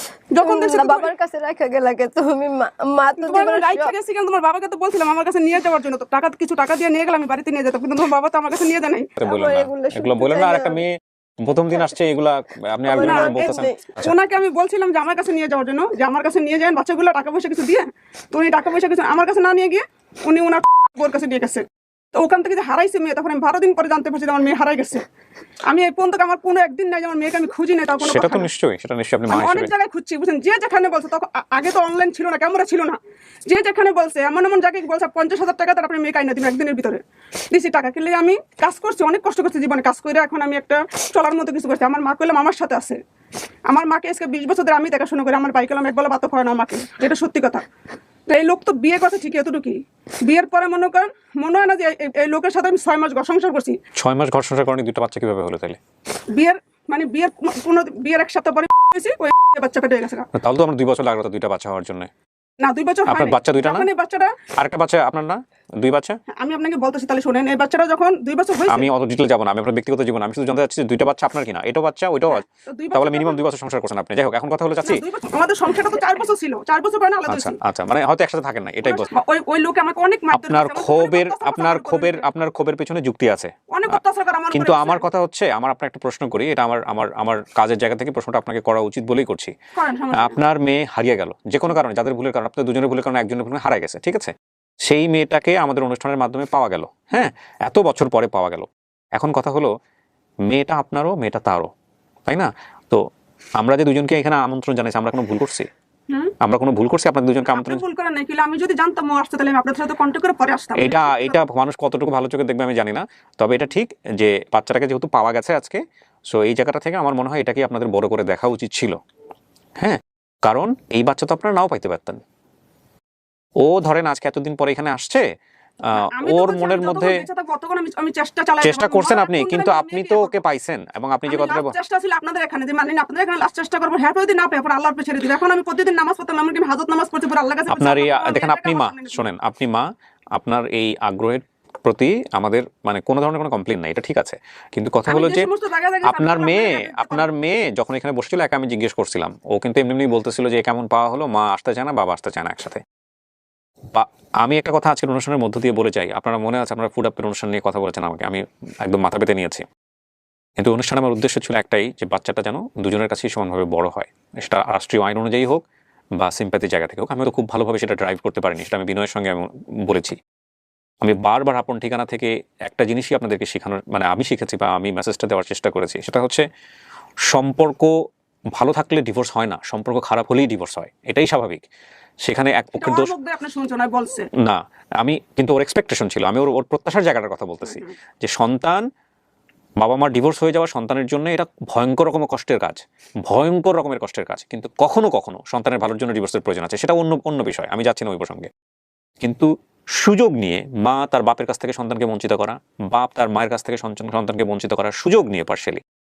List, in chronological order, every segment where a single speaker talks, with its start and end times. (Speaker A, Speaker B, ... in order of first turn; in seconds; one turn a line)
Speaker A: 0.3-1.1
Speaker B: 0.4-3.9
Speaker A: 3.2-9.1
Speaker C: 9.2-14.1
Speaker B: 9.2-10.8
Speaker B: 12.9-13.8
Speaker A: 13.0-25.1
Speaker A: 25.7-28.5
Speaker C: 28.0-29.7
Speaker A: 29.3-43.0
Speaker A: 43.7-47.7
Speaker A: 48.3-53.8
Speaker C: 54.0-55.8
Speaker A: 56.3-60.3
Speaker C: 60.3-62.1
Speaker A: 62.6-64.4
Speaker C: 63.1-63.9
Speaker C: 64.6-66.2
Speaker A: 66.3-68.9
Speaker C: 68.7-75.0
Speaker A: 72.3-73.4
Speaker A: 74.8-77.6
Speaker C: 77.3-79.1
Speaker A: 78.8-82.2
Speaker C: 80.3-84.0
Speaker A: 83.7-85.0
Speaker C: 84.5-89.5
Speaker A: 89.8-90.4
Speaker C: 90.1-99.7
Speaker C: 100.5-101.7
Speaker C: 102.3-105.7
Speaker C: 106.4-107.8
Speaker A: 107.5-111.4
Speaker C: 110.8-119.0
Speaker C: 119.8-122.2
Speaker C: 123.6-125.3
Speaker C: 125.8-127.2
Speaker A: 125.9-130.3
Speaker C: 128.6-131.8
Speaker A: 131.3-139.3
Speaker C: 137.7-145.5
Speaker A: 145.1-147.3
Speaker C: 146.0-152.8
Speaker C: 153.9-159.7
Speaker C: 160.6-165.6
Speaker C: 166.2-170.2
Speaker C: 171.0-176.4
Speaker C: 177.3-177.9
Speaker C: 178.5-181.6
Speaker C: 182.2-183.1
Speaker A: 182.8-184.3
Speaker C: 184.4-188.8
Speaker A: 187.7-187.9
Speaker C: 189.8-198.5
Speaker C: 199.2-205.8